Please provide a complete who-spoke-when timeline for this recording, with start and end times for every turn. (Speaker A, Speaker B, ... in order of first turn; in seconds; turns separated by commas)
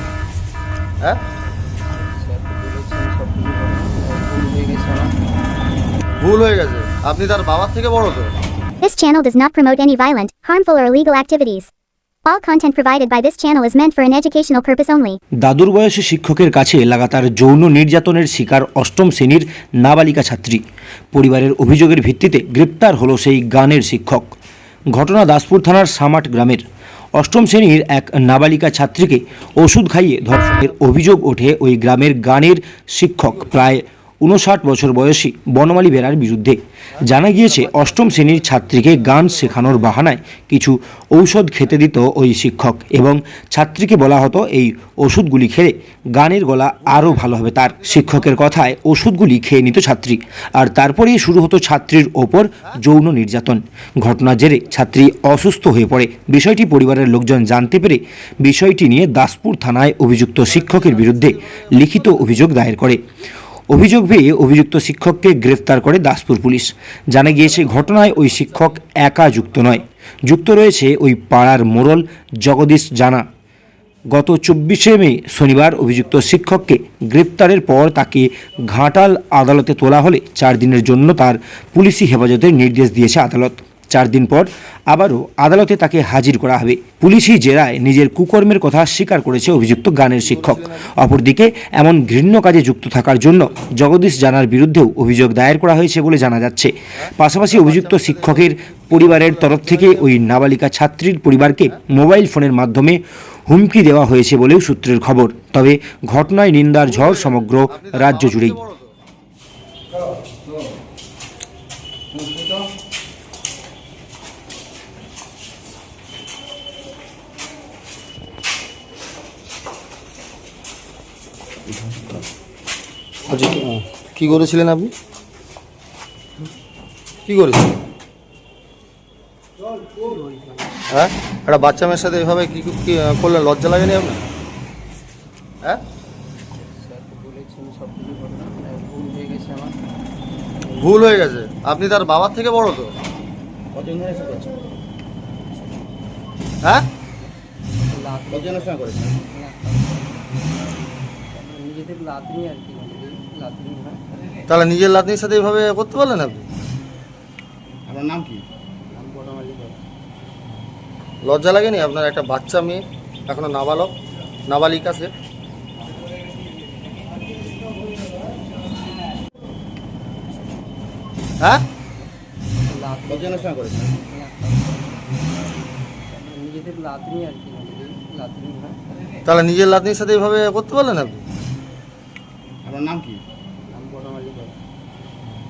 Speaker A: 2.0-5.2, Speaker B: 6.2-8.3, Speaker C: 8.8-11.7, Speaker C: 12.2-15.2, Speaker D: 15.4-20.6, Speaker D: 21.1-24.4, Speaker D: 24.9-26.6, Speaker D: 27.2-63.0, Speaker B: 37.5-39.8, Speaker B: 46.8-48.7, Speaker B: 60.4-62.3, Speaker D: 63.7-73.2, Speaker D: 74.1-108.6, Speaker B: 90.2-90.9, Speaker B: 97.0-100.1, Speaker B: 106.9-108.9, Speaker B: 123.3-124.9, Speaker B: 127.3-127.7, Speaker A: 129.9-130.7, Speaker B: 130.9-134.2, Speaker A: 136.7-139.8, Speaker B: 140.8-142.9, Speaker E: 143.8-144.5, Speaker A: 147.9-150.4, Speaker E: 148.3-149.0, Speaker A: 151.3-154.0, Speaker B: 154.5-156.5, Speaker E: 157.9-158.4, Speaker A: 158.9-159.8, Speaker B: 161.3-163.9, Speaker B: 164.5-165.1, Speaker A: 172.7-174.9, Speaker E: 173.2-173.7, Speaker A: 176.1-178.8, Speaker B: 179.3-181.2, Speaker E: 182.7-183.2, Speaker A: 183.7-184.6